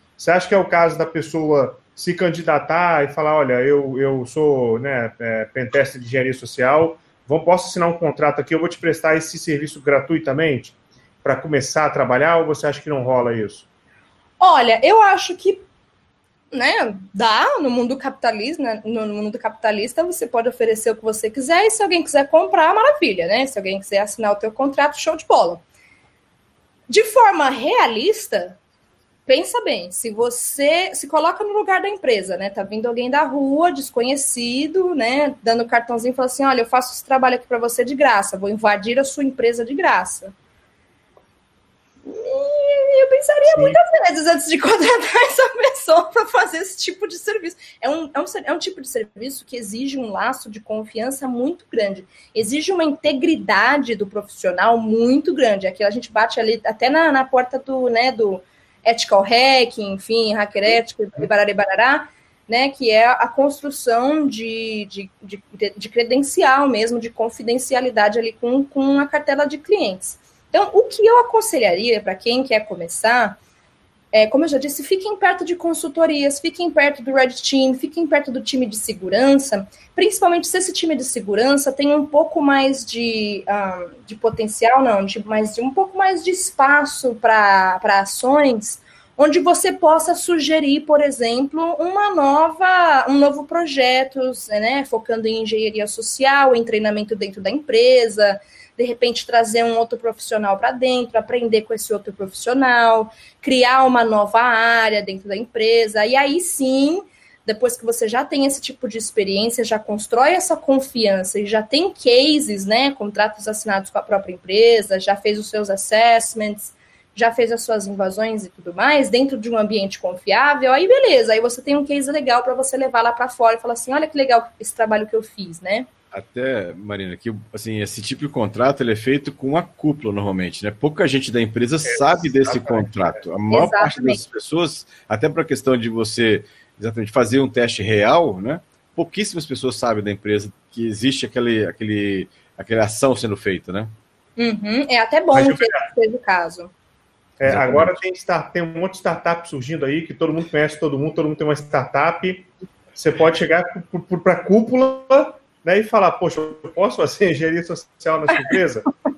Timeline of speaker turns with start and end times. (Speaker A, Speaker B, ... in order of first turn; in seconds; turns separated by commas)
Speaker A: 0.2-13.7, Speaker B: 14.4-15.7, Speaker B: 16.5-25.6, Speaker B: 26.9-28.6, Speaker B: 29.3-40.3, Speaker B: 42.1-73.4, Speaker A: 43.5-43.8, Speaker B: 74.1-125.9, Speaker C: 126.1-143.9, Speaker A: 131.9-133.2, Speaker B: 133.5-134.2, Speaker B: 144.4-146.7, Speaker A: 145.3-145.9, Speaker A: 147.4-158.9, Speaker C: 147.4-148.0